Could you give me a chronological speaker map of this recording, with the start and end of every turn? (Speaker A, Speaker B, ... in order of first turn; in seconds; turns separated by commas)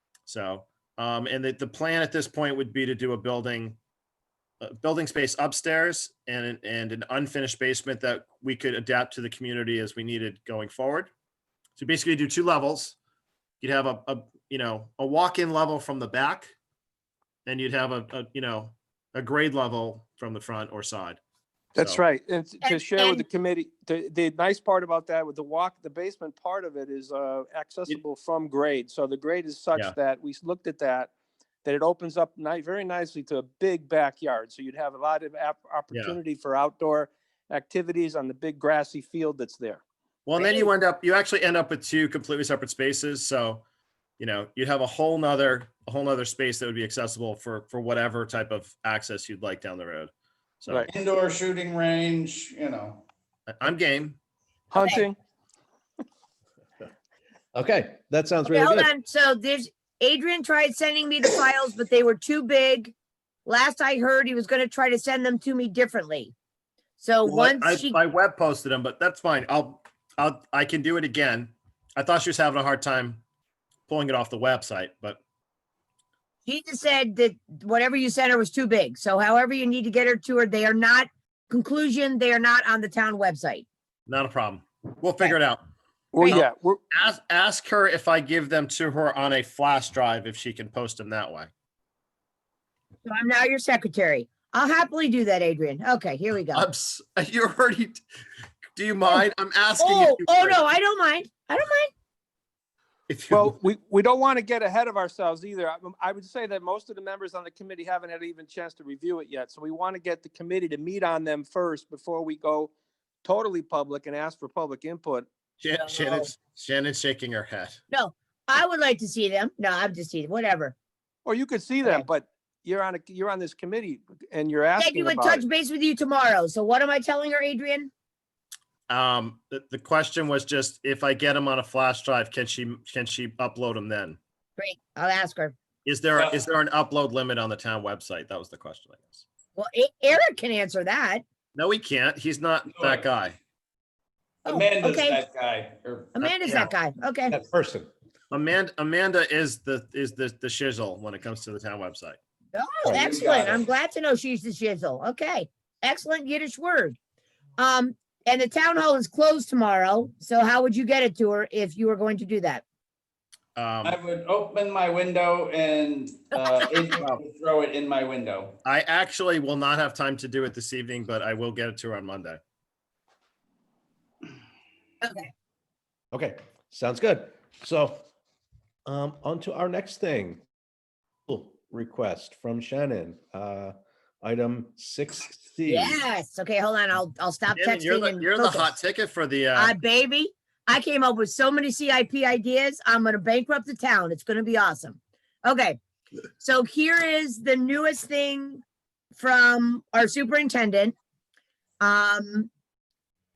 Speaker A: 0.3-3.8, Speaker A: 4.6-11.1, Speaker A: 11.8-13.0, Speaker A: 13.6-16.5, Speaker A: 17.5-21.2, Speaker B: 21.8-31.1, Speaker C: 22.6-23.2, Speaker B: 31.6-39.8, Speaker A: 40.3-43.6, Speaker C: 40.4-40.7, Speaker A: 44.2-50.9, Speaker D: 50.9-53.0, Speaker A: 53.5-54.2, Speaker B: 54.7-55.2, Speaker C: 54.8-55.0, Speaker E: 57.5-58.9, Speaker C: 58.4-62.9, Speaker C: 63.5-66.3, Speaker C: 67.0-68.0, Speaker A: 67.2-73.2, Speaker A: 73.9-75.2, Speaker C: 76.5-83.7, Speaker A: 84.1-85.6, Speaker B: 86.1-86.8, Speaker A: 86.3-91.5, Speaker C: 93.1-96.7, Speaker A: 96.5-98.0, Speaker A: 98.8-100.6, Speaker C: 99.8-101.9, Speaker A: 103.1-103.5, Speaker B: 103.3-112.7, Speaker B: 113.2-115.3, Speaker A: 115.6-117.8, Speaker C: 115.8-116.3, Speaker C: 117.9-120.8, Speaker B: 121.2-125.5, Speaker C: 124.8-127.9, Speaker A: 128.9-134.2, Speaker C: 134.6-135.6, Speaker A: 135.8-139.2, Speaker D: 136.2-136.5, Speaker C: 139.6-141.2, Speaker A: 141.6-143.4, Speaker D: 142.7-143.1, Speaker D: 144.4-146.2, Speaker C: 144.5-145.2, Speaker C: 146.2-147.4, Speaker A: 146.2-146.7, Speaker E: 147.3-147.9, Speaker A: 148.3-152.2, Speaker C: 152.5-157.0, Speaker D: 152.8-153.7, Speaker C: 157.6-162.6, Speaker A: 163.6-164.0, Speaker D: 163.8-168.6, Speaker A: 168.7-172.4, Speaker C: 175.0-175.3, Speaker E: 176.1-178.0, Speaker E: 178.9-180.4, Speaker E: 181.3-186.0, Speaker C: 185.7-188.7, Speaker A: 187.6-189.8, Speaker C: 189.6-195.8, Speaker C: 196.4-198.6, Speaker C: 199.1-200.9, Speaker C: 201.8-202.5